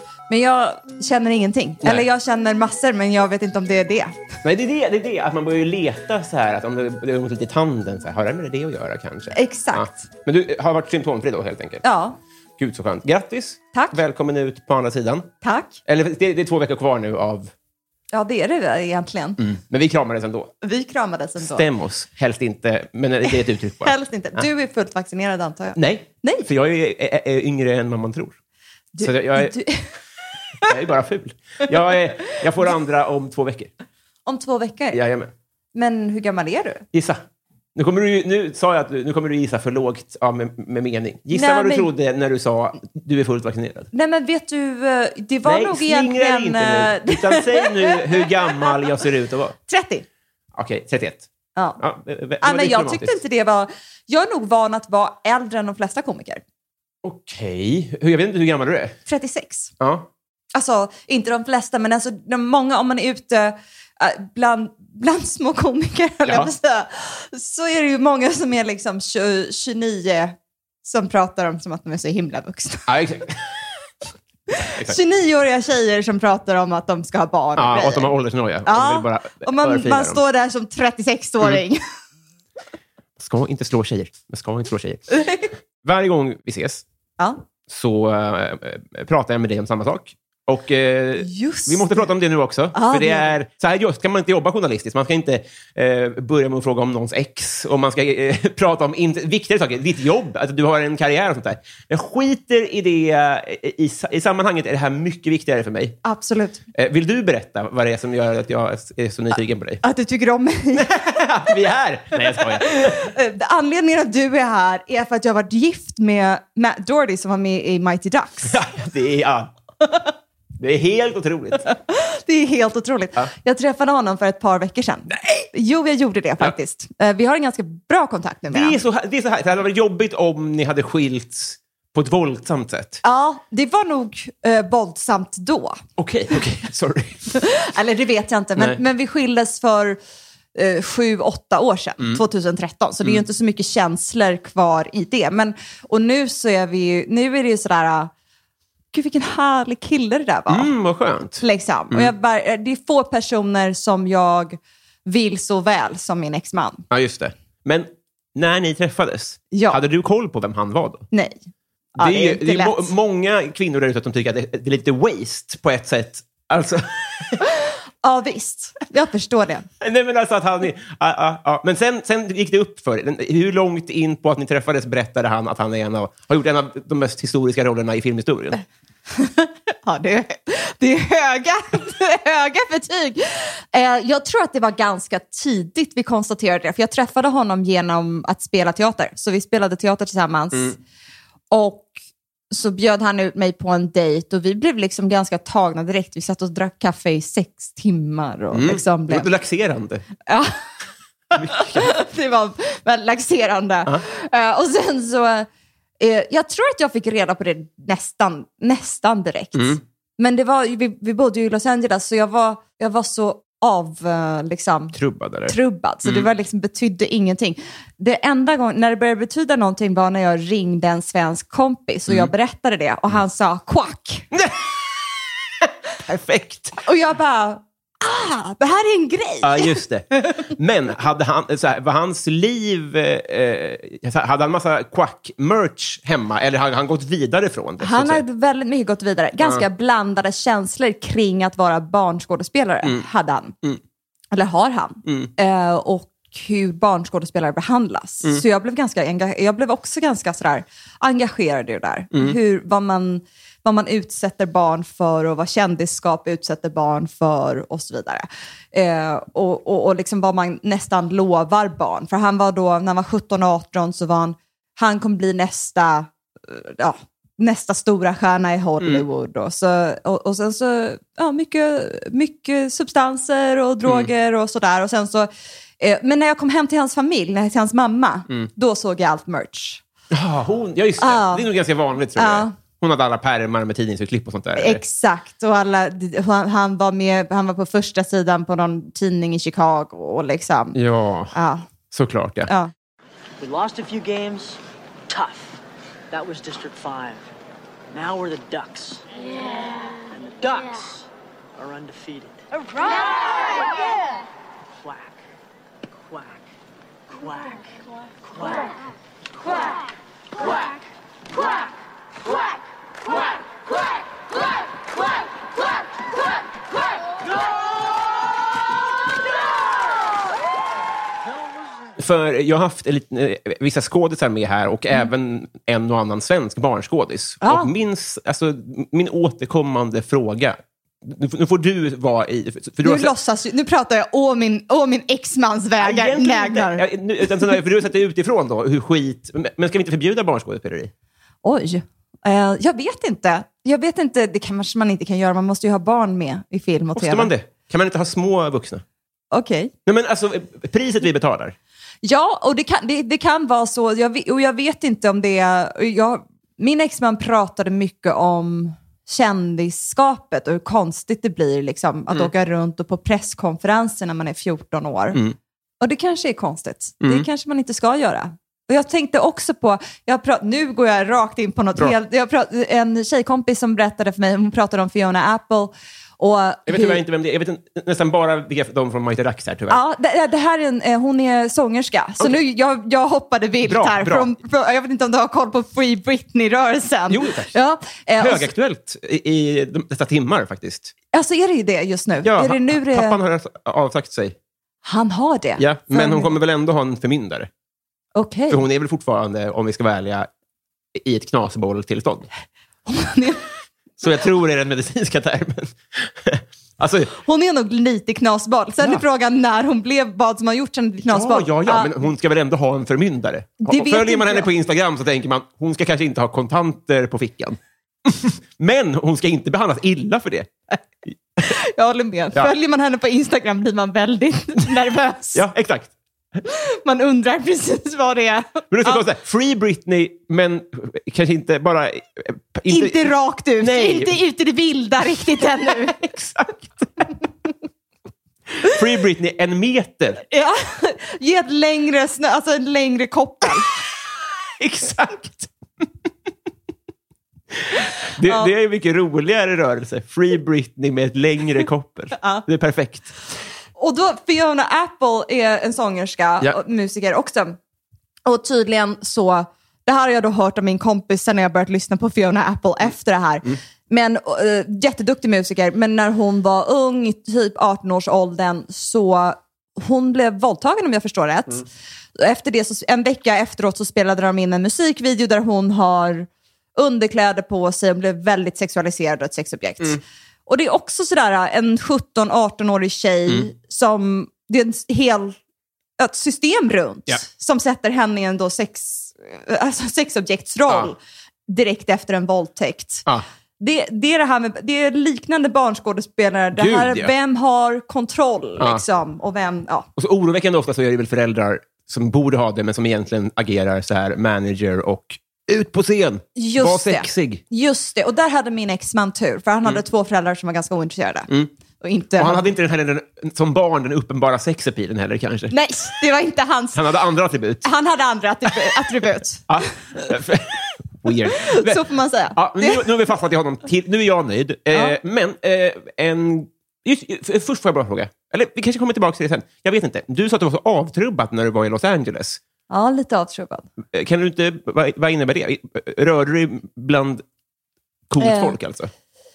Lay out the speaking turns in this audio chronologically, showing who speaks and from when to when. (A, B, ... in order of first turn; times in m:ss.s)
0:00.3-0:04.3 A
0:04.4-0:11.8 B
0:09.3-0:10.0 A
0:11.8-0:12.2 A
0:12.6-0:15.3 B
0:15.4-0:15.8 A
0:15.9-0:17.5 B
0:18.1-0:19.4 A
0:19.4-0:20.5 B
0:20.6-0:21.7 A
0:21.4-0:24.4 B
0:23.3-0:26.5 A
0:25.8-0:28.4 B
0:28.9-0:29.9 A
0:29.0-0:29.6 B
0:30.6-0:33.7 B
0:34.3-0:35.0 A
0:34.9-0:35.3 B
0:35.7-0:36.8 A
0:36.9-0:37.2 B
0:37.8-0:43.9 B
0:41.3-0:41.9 A
0:43.9-0:48.9 A
0:45.4-0:49.6 B
0:49.7-0:50.1 A
0:50.6-0:51.3 B
0:51.8-0:53.2 B
0:52.4-0:56.4 A
0:57.0-0:59.0 B
0:59.1-0:59.7 A
0:59.8-1:00.1 B
1:00.5-1:13.0 A
1:12.9-1:13.4 B
1:14.5-1:18.1 A
1:17.6-1:20.2 B
1:18.6-1:21.8 A
1:23.2-1:25.1 B
1:25.1-1:25.5 A
1:25.8-1:26.8 B
1:27.7-1:46.0 B
1:31.2-1:32.1 A
1:32.7-1:33.4 A
1:46.0-1:46.6 A
1:46.8-1:49.8 B
1:49.8-1:50.9 A
1:50.7-1:53.1 B
1:52.4-1:58.6 A
1:58.5-1:59.5 B
2:00.6-2:01.7 B
2:01.7-2:08.8 A
2:05.2-2:05.5 B
2:08.5-2:13.0 B
2:13.0-2:15.8 A
2:16.0-2:17.4 B
2:17.4-2:20.0 A
2:20.6-2:28.1 A
2:28.9-2:30.7 A
2:30.5-2:32.1 B
2:31.4-2:36.8 A
2:36.9-2:41.1 B
2:39.5-2:39.8 A
2:42.0-2:42.9 A
2:42.0-2:47.4 B
2:48.0-2:49.7 A
2:49.8-2:58.6 B
2:59.1-3:10.8 A
3:11.5-3:11.9 A
3:12.5-3:19.3 A
3:18.5-3:20.0 B
3:20.3-3:20.6 A
3:21.3-3:21.9 B
3:21.4-3:25.5 A
3:26.0-3:44.3 A
3:34.9-3:36.3 B
3:44.3-3:44.7 B
3:45.6-3:46.8 B
3:46.8-3:49.8 A
3:49.4-3:58.2 B
3:57.8-4:03.6 A
3:59.4-3:59.6 B
4:04.3-4:35.3 A
4:05.1-4:05.3 B
4:33.8-4:34.1 B
4:35.8-4:39.8 A
4:40.1-4:44.8 B
4:41.0-4:41.5 A
4:42.2-4:42.5 A
4:44.6-4:50.8 A
4:50.8-4:51.3 B
4:51.3-4:51.7 A
4:51.9-4:52.5 B
4:53.4-4:55.6 C
4:56.1-4:57.3 C
4:57.9-4:59.1 C
4:59.7-5:03.6 C
5:04.8-5:05.2 C
5:06.0-5:06.5 C
5:07.2-5:07.7 C
5:08.3-5:08.7 C
5:22.0-5:33.1 B
5:27.4-5:27.7 A
5:32.8-5:36.8 A
5:35.8-5:40.9 B
5:41.4-5:47.3 A
5:47.0-5:48.8 B
5:49.3-5:49.7 A
5:49.9-5:51.6 B
5:52.0-6:05.2 A
6:05.1-6:05.4 B
6:05.8-6:17.0 A
6:16.7-6:19.8 B
6:19.7-6:28.5 A
6:23.6-6:24.3 B
6:27.1-6:27.6 B
6:28.2-6:30.9 B
6:31.1-6:33.2 A
6:32.2-6:34.4 B
6:34.8-6:36.3 A
6:35.6-6:37.5 B
6:38.2-6:38.6 A
6:38.5-6:40.3 B
6:41.0-6:42.3 B
6:42.9-6:43.4 A
6:44.0-6:47.2 B
6:47.2-6:52.0 A
6:51.1-7:00.5 B
6:53.6-6:54.5 A
7:01.4-7:05.4 A
7:05.3-7:05.9 B
7:06.5-7:09.0 A
7:08.7-7:13.0 B
7:12.7-7:16.2 A
7:13.6-7:14.2 B
7:15.6-7:16.7 B
7:18.6-7:20.2 B
7:20.3-7:23.7 A
7:24.6-7:25.5 B
7:27.6-7:33.1 B
7:28.2-7:28.5 A
7:32.2-7:32.5 A
7:33.8-7:37.6 A
7:38.3-8:05.4 A
8:06.0-8:13.1 A
8:13.6-8:19.9 A
8:16.6-8:17.1 B
8:20.0-8:27.4 B
8:26.4-8:31.3 A
8:31.8-8:32.4 A
8:32.2-8:35.5 B
8:35.5-8:36.8 A
8:36.8-8:37.7 B
8:37.6-8:40.0 A
8:39.5-8:41.8 B
8:41.4-8:43.0 A
8:42.4-8:52.4 B
8:52.7-8:53.7 A
8:53.9-8:57.2 B
8:58.1-8:58.9 B
8:58.2-8:58.6 A